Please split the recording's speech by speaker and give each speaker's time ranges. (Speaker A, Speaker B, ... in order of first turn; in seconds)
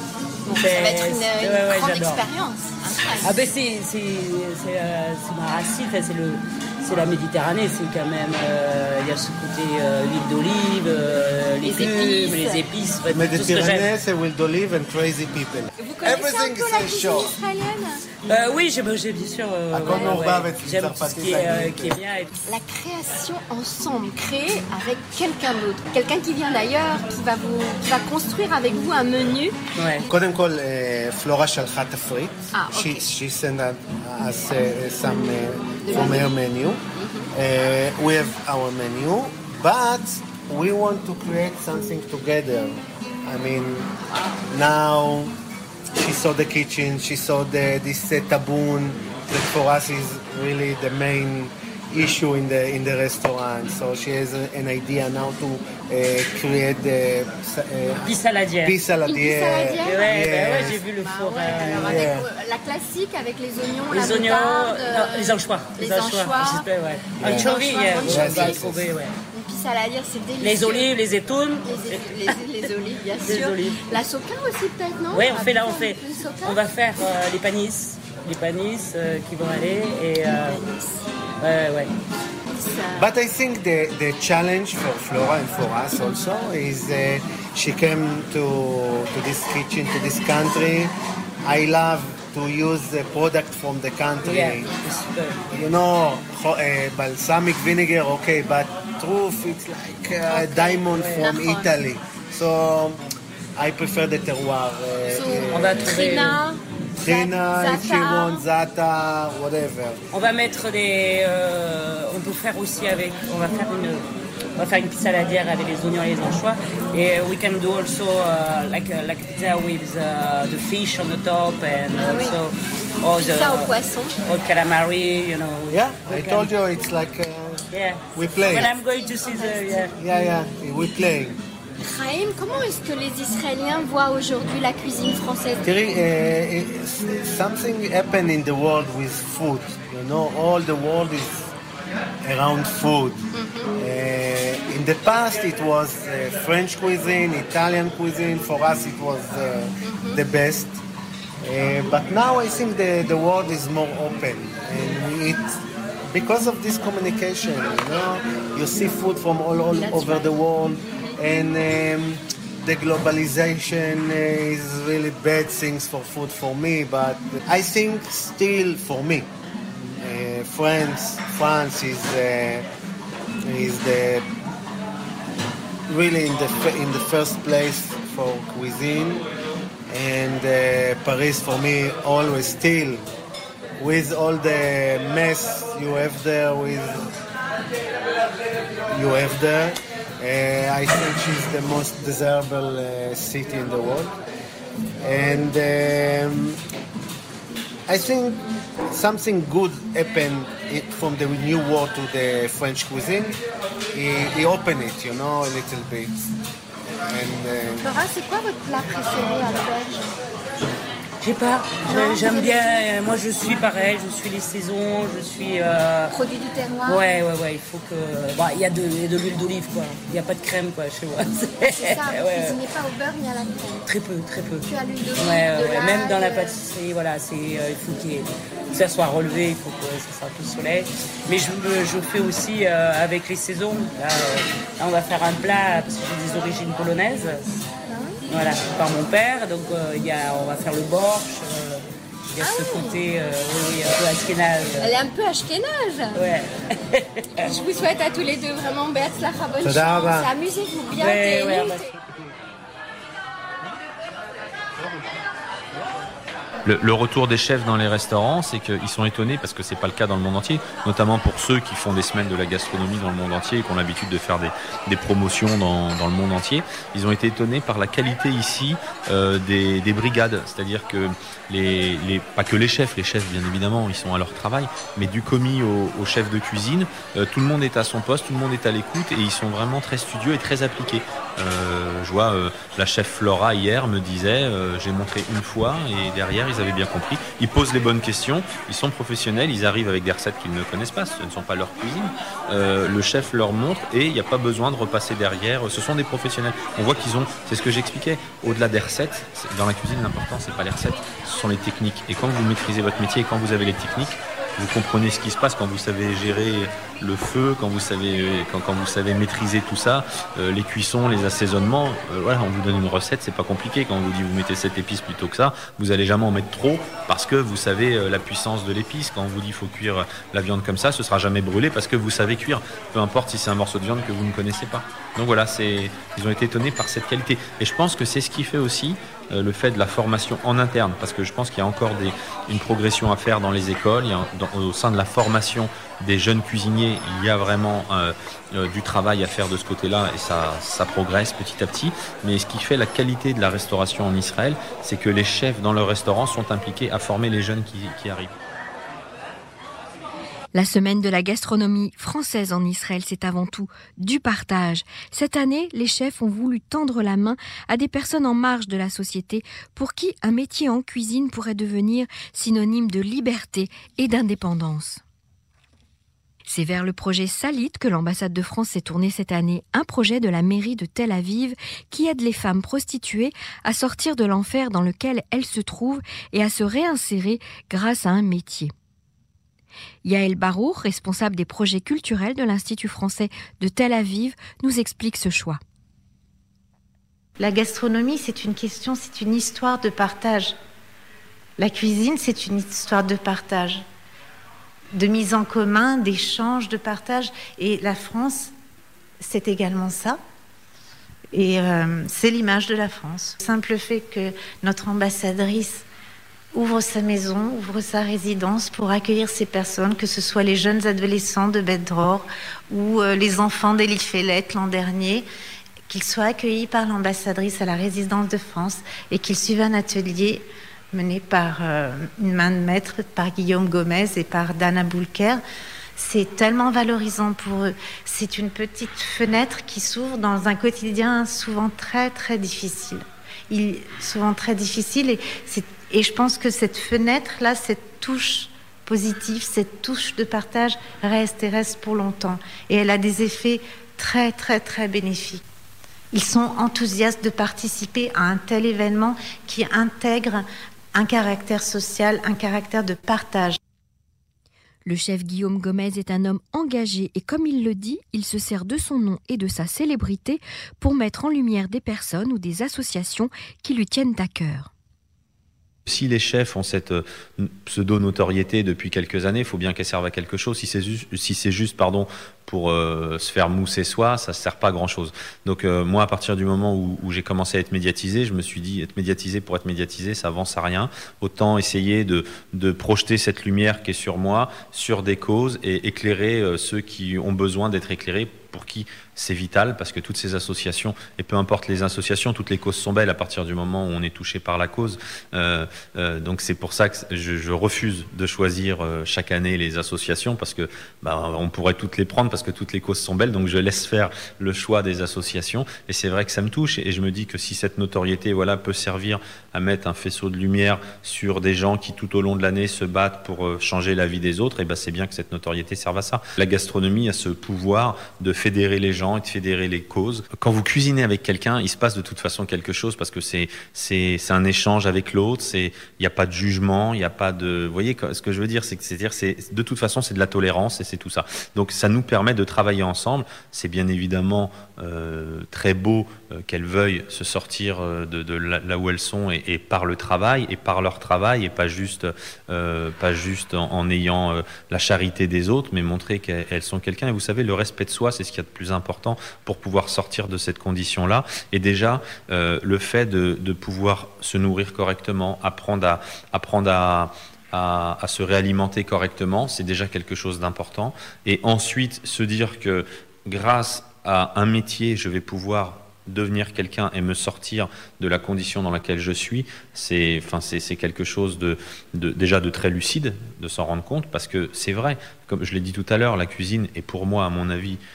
Speaker A: 0.4-3.4, 11.6-12.6, 15.8-18.1, 19.8-20.2, 22.4-30.1, 32.5-33.1, 35.8-36.3, 37.0-37.3, 59.0-66.7, 67.2-68.7, 69.3-70.9, 71.6-76.6, 80.2-81.0, 82.5-83.1, 100.3-101.8, 105.1-108.4, 121.9-122.4, 123.1-124.2, 128.4-129.9, 131.8-135.6, 143.3-143.7, 149.8-150.2, 159.7-160.3, 207.8-210.1, 211.8-212.9, 216.1-217.0, 221.6-223.9, 224.7-226.6, 237.9-238.2, 242.4-243.0, 244.8-246.2, 247.4-251.9
Speaker B: 0.5-2.3, 3.2-13.9, 18.2-22.3, 29.8-30.0, 58.0-58.8, 59.8-62.1, 63.9-69.1, 70.4-72.7, 73.2-73.8, 75.1-80.6, 81.4-81.9, 94.2-95.4, 100.9-101.3, 105.5-106.4, 110.1-114.0, 114.6-126.5, 127.7-129.9, 211.2-216.1, 216.8-222.6, 223.8-237.5, 238.3-245.0, 246.1-247.5, 250.9-251.8
Speaker C: 13.1-17.4, 19.7-22.0, 30.1-43.9, 44.5-45.3, 45.9-60.8, 61.5-62.3, 67.2-68.8, 83.0-90.9, 91.4-94.7, 95.5-103.0, 103.5-106.1, 107.0-110.0, 125.7-127.6, 128.2-128.7, 130.0-131.4, 135.6-141.5, 142.2-143.3, 143.8-150.8, 151.4-155.6, 156.1-172.7, 173.4-174.2, 175.9-179.2, 179.9-183.0, 183.8-187.1, 188.9-194.2, 195.0-196.6, 197.9-203.4, 203.9-206.2, 207.1-207.9, 249.6-250.3
Speaker D: 256.6-348.3, 465.9-577.8
Speaker E: 350.5-365.0, 366.5-378.7, 380.0-385.6, 454.9-464.7
Speaker F: 387.4-390.6, 391.6-393.8, 394.9-398.5, 399.2-400.2, 401.3-405.8, 406.5-415.2, 415.9-425.4, 425.9-445.4, 446.1-453.6